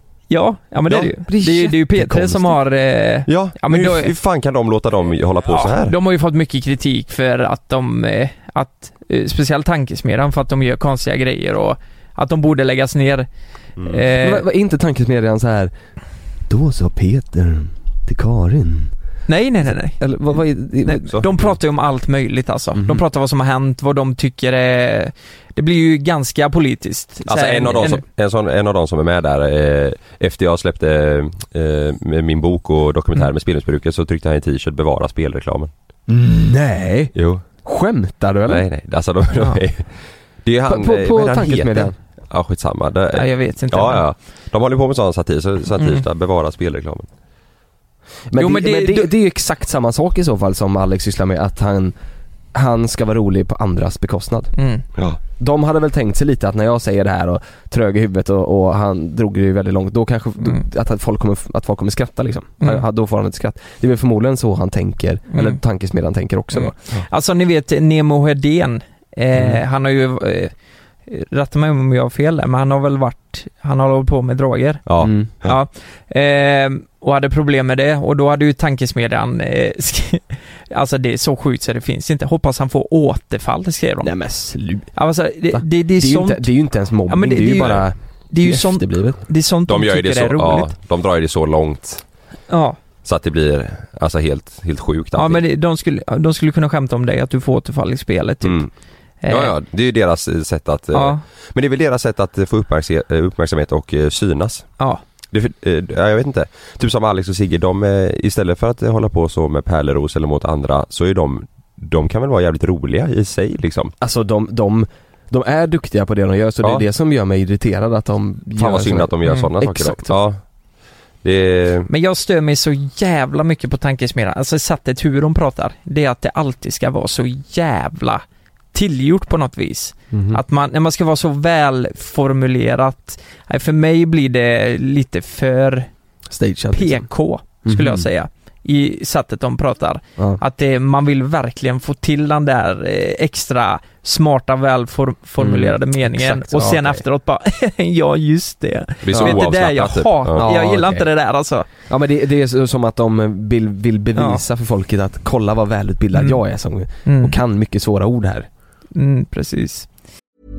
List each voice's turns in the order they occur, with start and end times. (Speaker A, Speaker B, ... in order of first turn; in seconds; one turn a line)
Speaker A: 0.3-4.1
Speaker B: 1.1-2.6
Speaker C: 3.3-6.0
Speaker A: 5.5-13.3
Speaker C: 13.8-14.1
Speaker A: 13.8-14.4
Speaker B: 14.2-15.7
Speaker B: 16.5-18.9
Speaker A: 19.3-28.0
Speaker B: 20.0-21.2
Speaker B: 22.8-23.0
Speaker C: 27.3-35.7
Speaker B: 36.1-38.6
Speaker C: 37.1-37.4
Speaker C: 38.5-39.9
Speaker C: 40.4-47.1
Speaker B: 40.7-42.0
Speaker A: 43.1-44.0
Speaker A: 45.8-46.0
Speaker B: 48.3-52.0
Speaker A: 48.4-49.1
Speaker B: 52.5-54.5
Speaker A: 54.6-54.8
Speaker B: 55.4-66.7
Speaker A: 66.5-70.5
Speaker A: 71.1-74.8
Speaker C: 74.9-75.6
Speaker B: 75.0-75.3
Speaker A: 75.4-84.1
Speaker B: 84.0-85.0
Speaker A: 85.0-86.5
Speaker B: 85.5-89.2
Speaker A: 87.1-90.8
Speaker C: 89.7-92.0
Speaker A: 92.5-92.8
Speaker C: 93.0-95.4
Speaker A: 95.2-98.7
Speaker C: 98.4-98.7
Speaker A: 99.2-99.5
Speaker C: 99.3-104.7
Speaker A: 100.9-101.2
Speaker C: 105.3-113.9
Speaker B: 114.0-120.2
Speaker C: 118.6-120.4
Speaker C: 121.2-121.9
Speaker A: 121.9-135.9
Speaker B: 130.1-130.4
Speaker B: 136.3-137.1
Speaker A: 136.7-151.7
Speaker B: 137.7-138.1
Speaker B: 145.4-147.0
Speaker C: 149.0-150.5
Speaker B: 149.1-149.4
Speaker B: 150.3-151.1
Speaker B: 151.9-158.5
Speaker A: 154.2-154.4
Speaker A: 157.1-157.3
Speaker A: 158.9-159.9